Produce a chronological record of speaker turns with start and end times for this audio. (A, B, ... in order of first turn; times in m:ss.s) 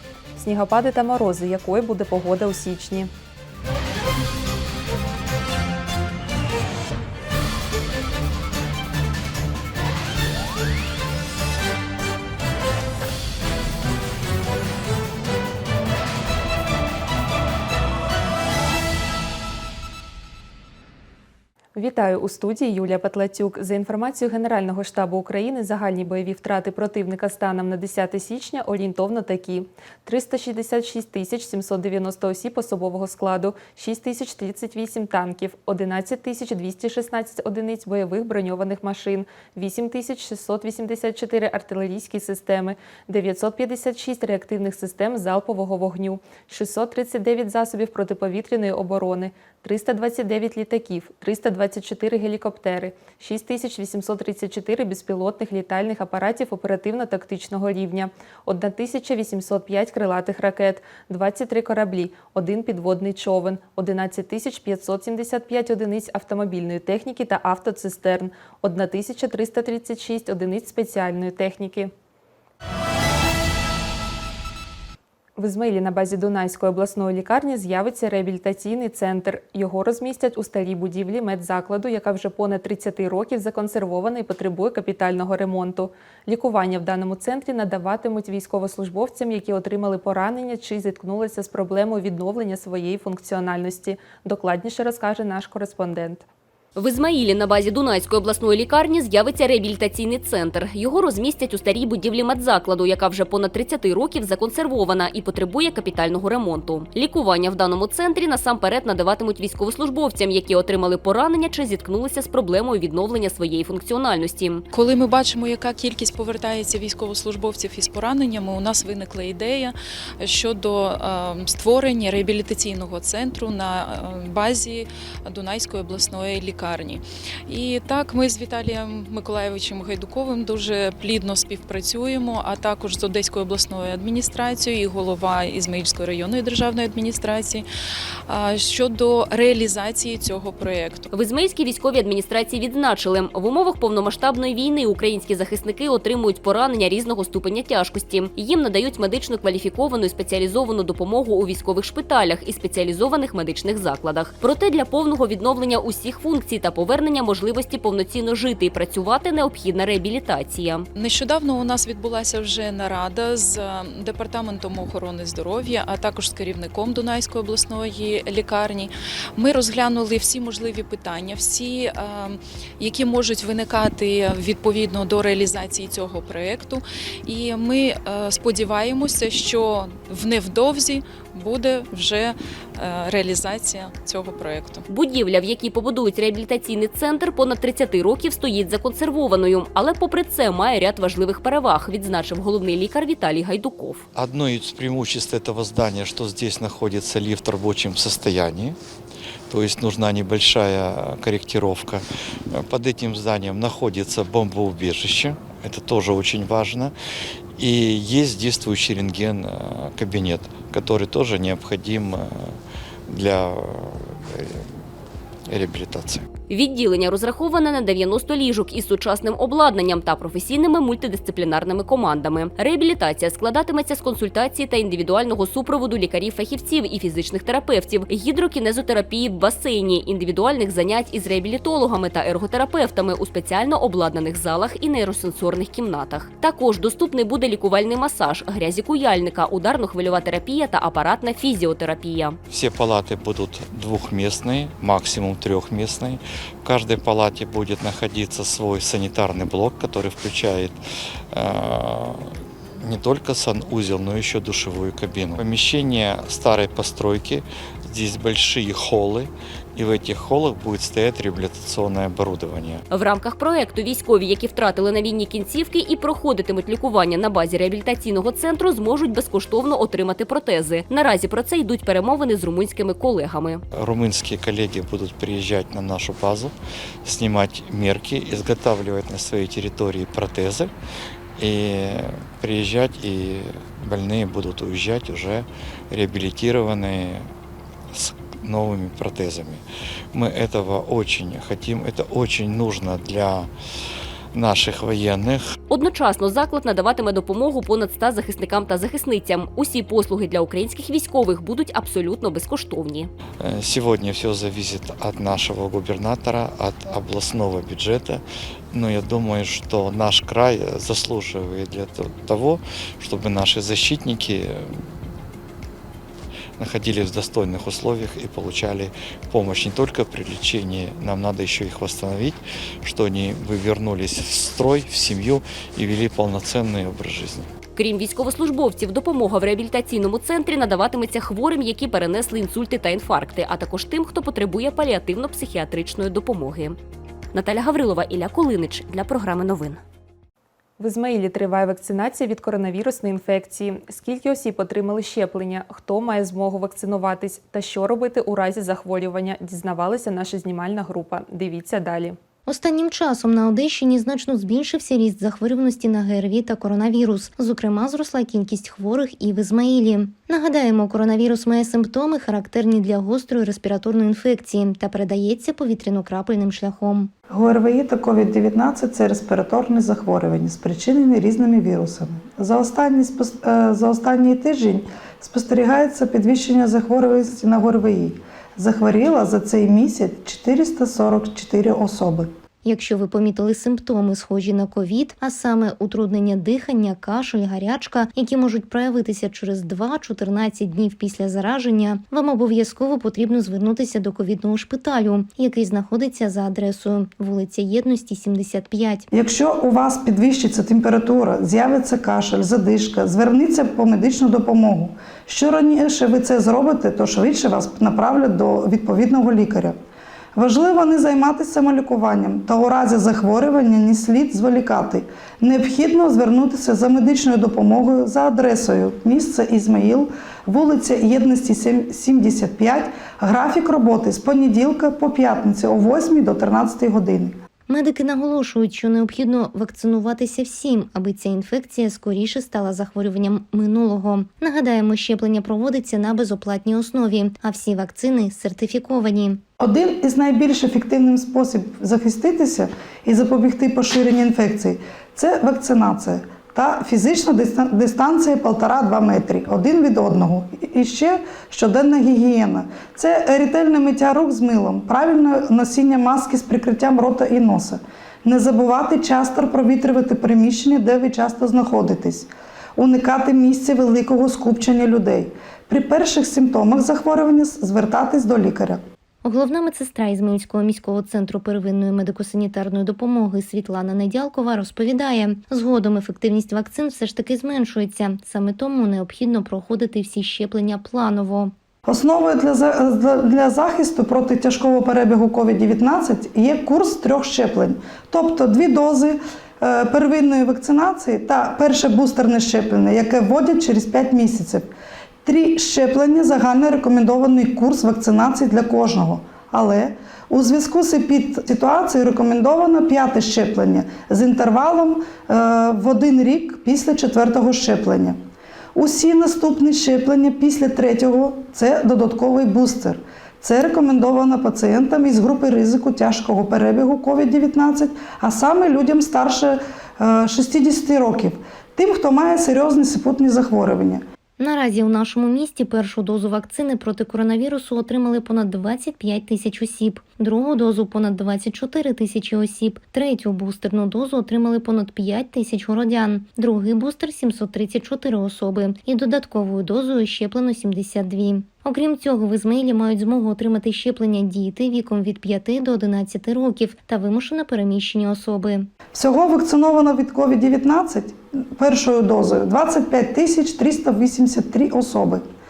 0:00.4-0:03.1 A
0:21.8-1:11.9 A
1:15.4-1:36.2 A
1:36.8-1:54.6 B
1:54.7-2:17.6 C
2:18.3-2:21.1 C
2:21.1-2:40.9 B
2:41.0-3:04.8 C
3:04.9-3:14.0 B
3:14.2-3:18.8 D
3:19.5-3:26.9 D
3:27.6-3:32.5 D
3:33.1-3:34.6 D
3:35.5-3:36.3 D
3:36.5-4:02.4 B
4:02.5-4:10.8 D
4:11.3-4:12.3 D
4:12.8-4:22.8 D
4:22.9-4:33.6 B
4:33.7-4:40.7 D
4:41.4-4:47.3 D
4:47.9-4:49.6 D
4:50.1-4:53.5 D
4:54.3-4:55.4 D
4:55.7-5:03.1 B
5:03.4-5:14.8 D
5:16.6-5:27.5 D
5:27.8-5:36.8 B
5:37.3-5:39.8 B
5:40.8-5:52.2 A
5:52.5-6:07.1 E
6:07.3-6:22.3 F
6:22.6-6:39.1 E
6:39.1-6:49.8 F
6:50.4-7:07.4 F
7:07.7-7:19.4 E
7:19.6-7:48.8 F
7:49.2-8:01.5 E
8:01.9-8:14.7 F
8:15.2-8:28.2 F
8:28.8-8:44.0 F
8:44.4-9:08.7 E
9:08.9-9:15.2 F